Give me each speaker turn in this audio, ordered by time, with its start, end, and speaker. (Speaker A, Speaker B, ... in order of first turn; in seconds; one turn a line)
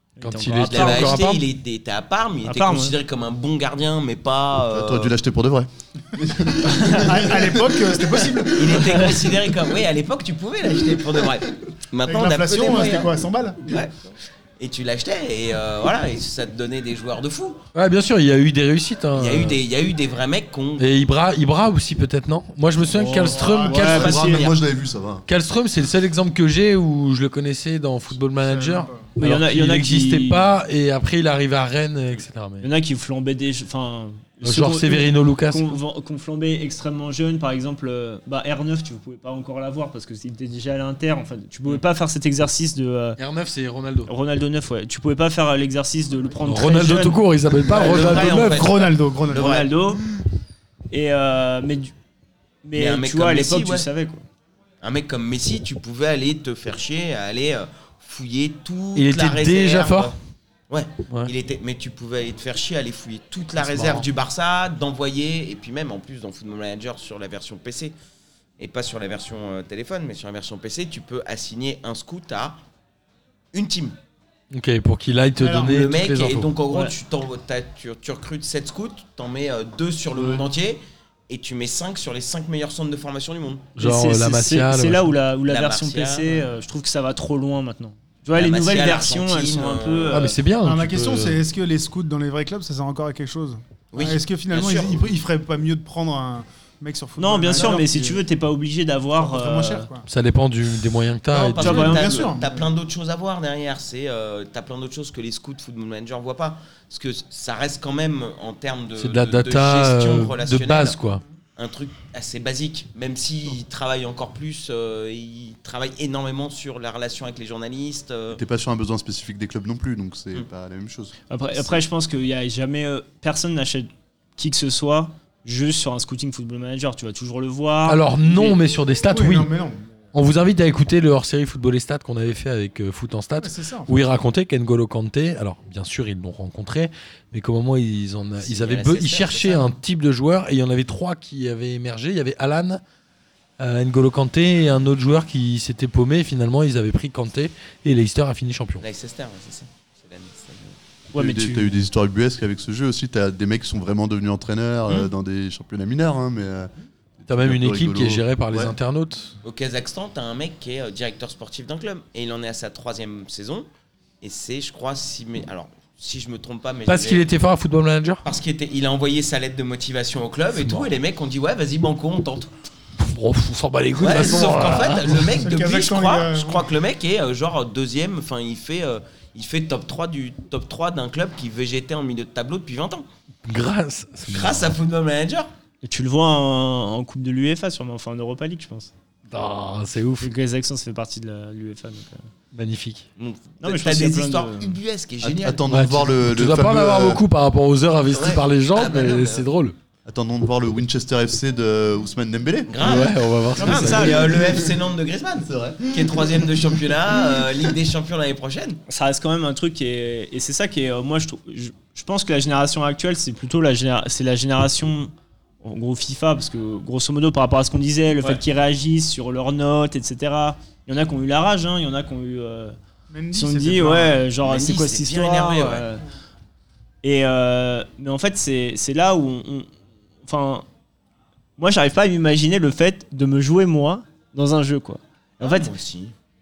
Speaker A: 0.2-1.2
Speaker B: 0.2-1.4
Speaker C: 0.7-5.1
Speaker A: 2.4-3.0
Speaker D: 4.7-8.8
Speaker A: 6.7-7.1
Speaker E: 6.9-9.3
Speaker C: 8.6-13.9
Speaker E: 12.0-13.7
Speaker C: 14.6-17.6
Speaker B: 17.7-19.6
Speaker C: 19.1-20.9
Speaker B: 20.8-24.1
Speaker E: 23.1-24.1
Speaker C: 23.1-24.6
Speaker A: 23.6-24.5
Speaker D: 23.9-25.2
Speaker B: 25.3-32.7
Speaker E: 28.4-29.1
Speaker A: 29.2-30.5
Speaker A: 32.6-43.2
Speaker B: 34.4-35.8
Speaker B: 43.2-44.1
Speaker A: 44.1-47.2
Speaker B: 46.4-48.6
Speaker C: 47.7-49.7
Speaker E: 47.8-49.5
Speaker A: 49.3-50.0
Speaker A: 50.9-51.9
Speaker A: 52.6-54.2
Speaker C: 52.7-53.9
Speaker C: 54.8-60.1
Speaker B: 58.9-60.1
Speaker C: 60.7-67.9
Speaker B: 63.6-64.0
Speaker C: 68.6-72.6
Speaker C: 73.5-74.0
Speaker B: 74.5-76.5
Speaker E: 75.4-75.8
Speaker C: 75.6-83.7
Speaker A: 76.7-77.0
Speaker D: 80.2-80.4
Speaker B: 83.8-85.1
Speaker A: 83.8-90.4
Speaker C: 85.5-86.4
Speaker C: 88.3-90.3
Speaker B: 90.1-91.4
Speaker E: 90.6-98.2
Speaker C: 93.9-95.0
Speaker A: 97.2-99.9
Speaker E: 99.2-100.1
Speaker B: 100.1-102.0
Speaker C: 101.3-111.0
Speaker E: 101.6-102.7
Speaker A: 101.6-102.0
Speaker B: 109.0-111.2
Speaker C: 111.6-118.4
Speaker D: 118.3-121.1
Speaker A: 121.3-128.6
Speaker B: 127.9-129.5
Speaker E: 129.1-129.9
Speaker B: 130.1-142.8
Speaker E: 133.4-133.9
Speaker C: 138.4-139.7
Speaker B: 143.6-148.8
Speaker C: 148.8-150.8
Speaker A: 151.1-151.7
Speaker D: 151.1-158.7
Speaker B: 157.3-159.4
Speaker C: 159.4-163.7
Speaker C: 164.2-167.3
Speaker B: 166.9-168.2
Speaker C: 168.2-172.5
Speaker B: 170.6-170.9
Speaker B: 173.0-175.3
Speaker C: 174.0-183.1
Speaker E: 174.1-176.7
Speaker B: 183.4-184.8
Speaker C: 184.3-185.5
Speaker A: 185.8-188.9
Speaker B: 189.3-190.3
Speaker A: 190.2-192.3
Speaker B: 192.5-193.1
Speaker C: 193.2-195.8
Speaker A: 193.6-194.8
Speaker D: 195.2-197.2
Speaker B: 195.7-199.7
Speaker C: 198.1-199.4
Speaker D: 200.1-203.0
Speaker C: 202.7-208.8
Speaker B: 202.8-204.2
Speaker A: 203.6-204.6
Speaker D: 204.1-204.8
Speaker D: 205.4-207.7
Speaker A: 208.9-215.1
Speaker A: 215.6-222.8
Speaker E: 223.1-224.2
Speaker A: 223.3-226.0
Speaker C: 224.4-225.9
Speaker A: 227.0-229.7
Speaker A: 230.2-230.7
Speaker A: 231.6-235.7
Speaker C: 235.4-236.1